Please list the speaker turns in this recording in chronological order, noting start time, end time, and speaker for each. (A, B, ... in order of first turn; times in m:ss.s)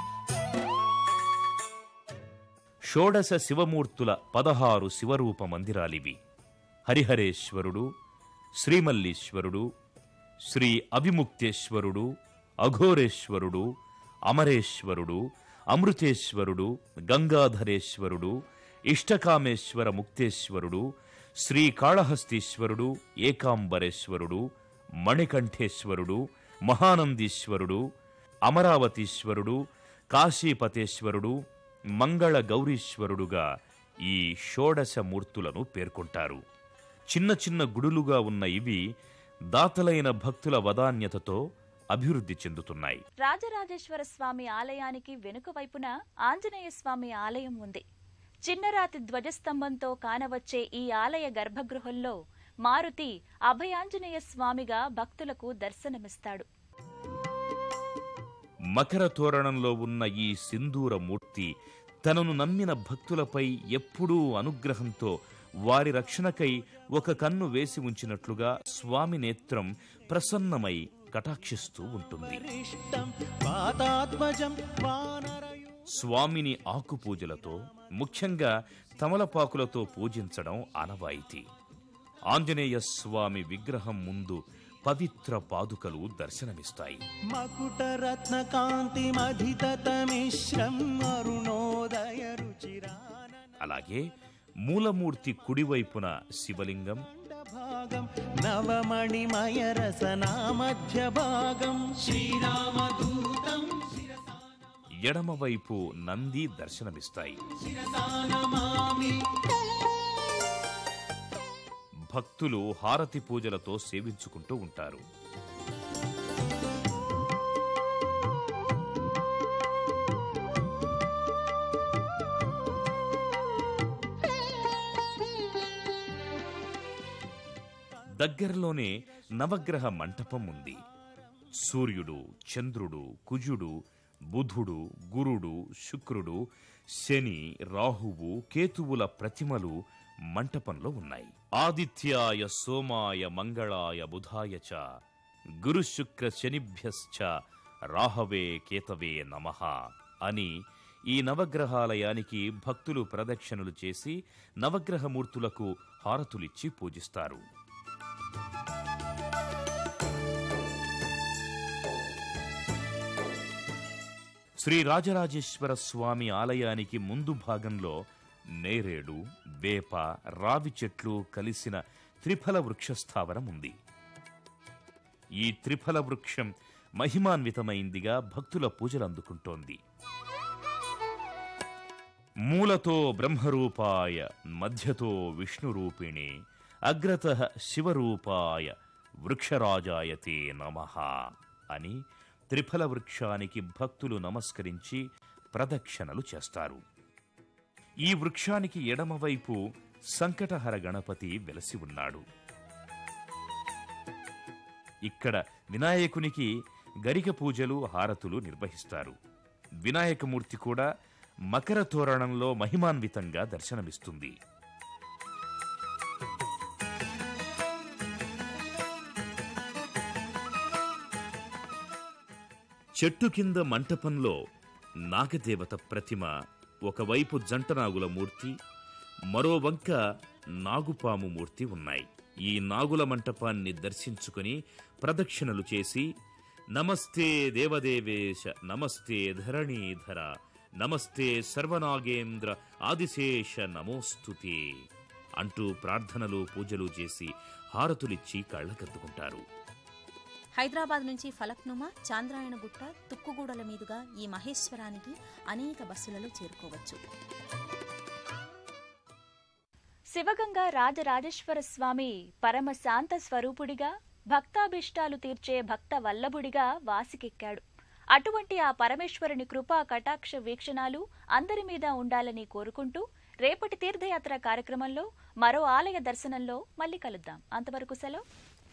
0:02.9-0:06.2 A
0:06.8-0:07.9 A
0:08.6-0:09.7 A
0:10.5-0:12.1 A
0:12.6-0:13.7 A
0:14.3-0:18.4 A
0:18.9-0:20.9 A
0:21.4-0:24.4 A
0:25.0-0:27.8 A
0:28.4-0:29.6 A
0:30.1-0:31.4 A
0:32.0-0:33.4 A
0:34.1-0:36.4 A
0:37.1-0:38.8 A
0:39.5-0:41.4 A
0:41.9-0:43.0 A
0:43.2-0:47.8 B
0:48.4-0:56.4 B
0:58.7-1:01.5 A
1:02.0-1:05.1 A
1:05.7-1:12.4 A
1:12.3-1:15.7 C
1:15.9-1:21.4 A
1:22.3-1:27.0 A
1:27.3-1:33.6 C
1:33.6-1:34.1 A
1:34.6-1:37.0 A
1:37.1-1:44.4 C
1:45.0-1:47.4 A
1:47.6-1:49.2 C
1:52.1-1:55.0 A
2:08.2-2:10.8 A
2:11.6-2:13.7 A
2:14.3-2:16.4 A
2:16.9-2:19.8 A
2:20.3-2:24.8 A
2:25.6-2:27.3 A
2:27.9-2:30.5 A
2:31.1-2:37.4 A
2:44.6-2:48.0 A
2:48.6-2:53.8 A
2:55.4-2:59.8 A
3:02.5-3:06.3 A
3:06.9-3:08.7 A
3:09.2-3:11.2 A
3:11.7-3:12.0 A
3:12.5-3:16.8 A
3:18.0-3:19.6 A
3:20.1-3:22.2 A
3:25.0-3:26.5 A
3:27.0-3:29.2 A
3:29.8-3:30.9 A
3:31.5-3:34.4 A
3:43.0-3:44.4 A
3:45.1-3:46.3 A
3:46.8-3:48.6 A
3:49.3-3:50.0 A
3:50.6-3:56.1 A
3:56.7-4:04.6 A
4:05.4-4:09.4 A
4:10.6-4:17.0 D
4:20.1-4:27.6 B
4:28.1-4:38.2 B